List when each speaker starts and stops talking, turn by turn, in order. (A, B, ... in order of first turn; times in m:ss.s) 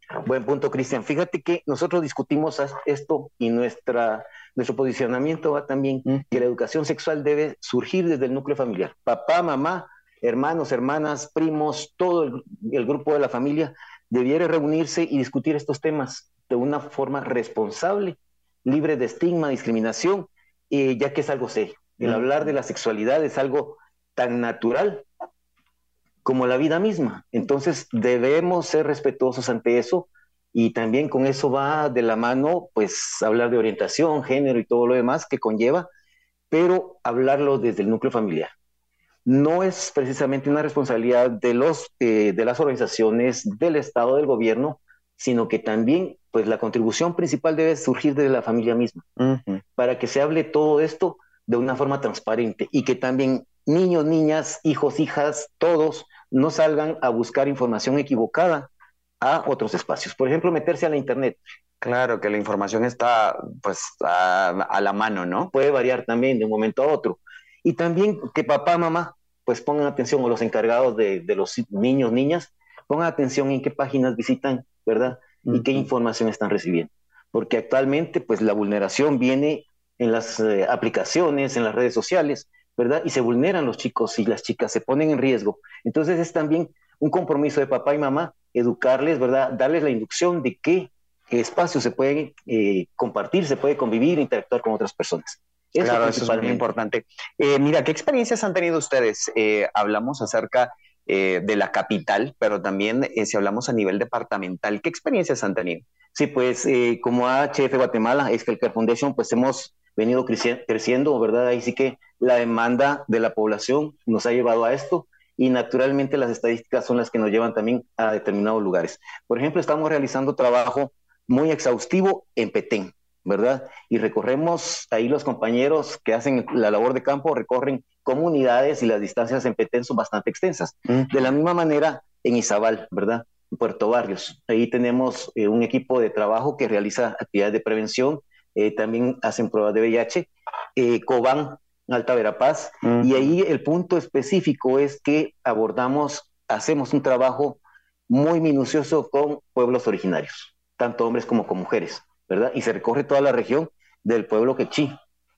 0:00.2-0:25.0 A
0:26.2-0:35.9 A
0:36.5-0:38.5 A
0:39.3-0:49.0 A
0:49.2-0:49.6 B
0:49.8-0:58.7 A
0:59.2-1:01.4 A
1:01.8-1:05.5 B
1:05.5-1:36.6 A
1:15.4-1:15.8 B
1:35.8-1:45.8 B
1:46.1-2:35.0 A
2:10.9-2:11.2 B
2:22.8-2:23.3 B